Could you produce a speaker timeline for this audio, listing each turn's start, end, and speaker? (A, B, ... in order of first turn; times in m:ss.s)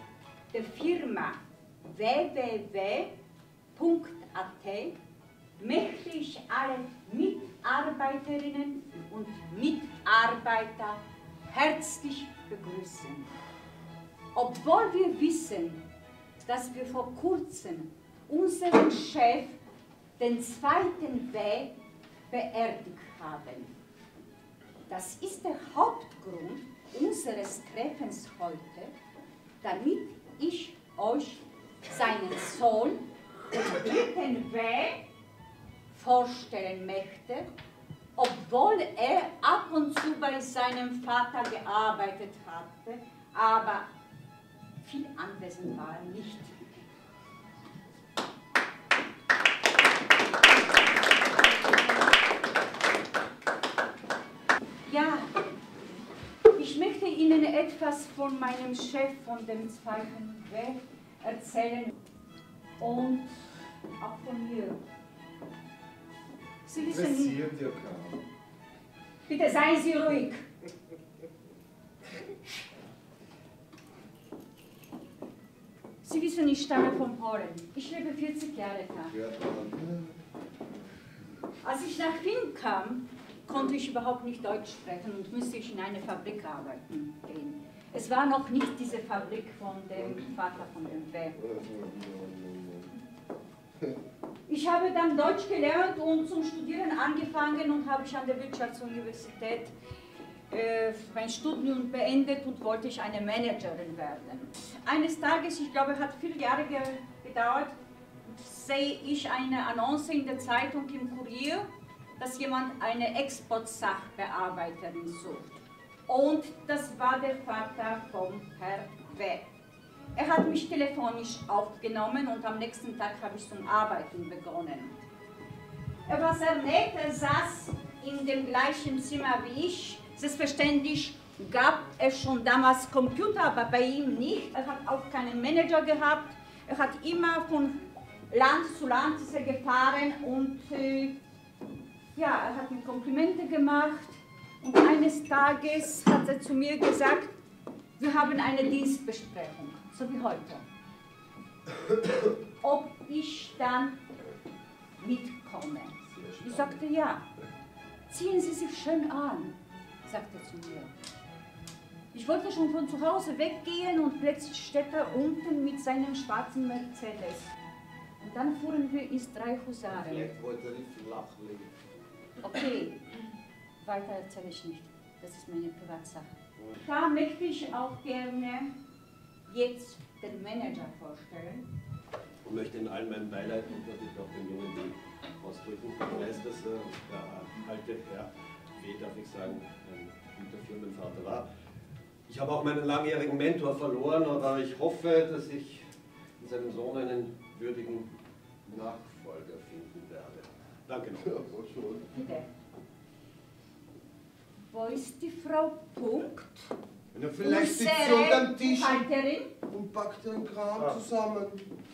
0:00.5-0:03.1 A
0:03.8-0:05.0 A
0:05.6-0:13.3 A
0:14.3-0:15.8 A
0:16.5-0:19.6 A
0:20.2-0:21.7 A
0:22.3-0:23.7 A
0:24.9-0:28.9 A
0:29.6-0:35.0 A
0:35.9-0:37.5 A
0:38.2-0:43.9 A
0:44.8-0:46.6 A
0:54.8-0:55.3 A
0:56.6-1:01.9 A
1:02.8-1:03.4 A
1:04.0-1:04.8 A
1:06.6-1:07.4 A
1:06.8-1:08.2 B
1:09.3-1:10.5 A
1:16.0-1:19.1 A
1:19.1-1:20.2 B
1:21.6-1:31.4 A
1:30.0-1:30.2 B
1:31.4-1:32.9 B
1:34.5-1:39.7 A
1:40.5-1:51.7 A
1:52.2-1:55.5 A
1:56.1-1:59.4 A
2:00.2-2:05.0 A
2:06.1-2:17.8 A
2:18.3-2:21.2 A
2:22.2-2:27.4 A
2:28.0-2:30.7 A
2:32.6-2:34.0 A
2:35.0-2:37.2 A
2:36.1-2:36.8 B
2:38.1-2:40.9 A
2:42.1-2:47.5 A
2:48.2-2:50.3 A
2:49.9-2:51.7 C
2:52.4-2:53.0 A
2:53.8-2:58.7 A
2:59.5-3:01.6 A
3:02.4-3:11.5 C
3:12.3-3:15.9 C
3:16.4-3:18.1 C
3:18.6-3:21.4 C
3:21.2-3:22.1 B
3:22.1-3:22.5 A
3:24.7-3:26.7 A
3:27.1-3:29.1 B
3:27.4-3:29.5 A
3:29.6-3:31.6 B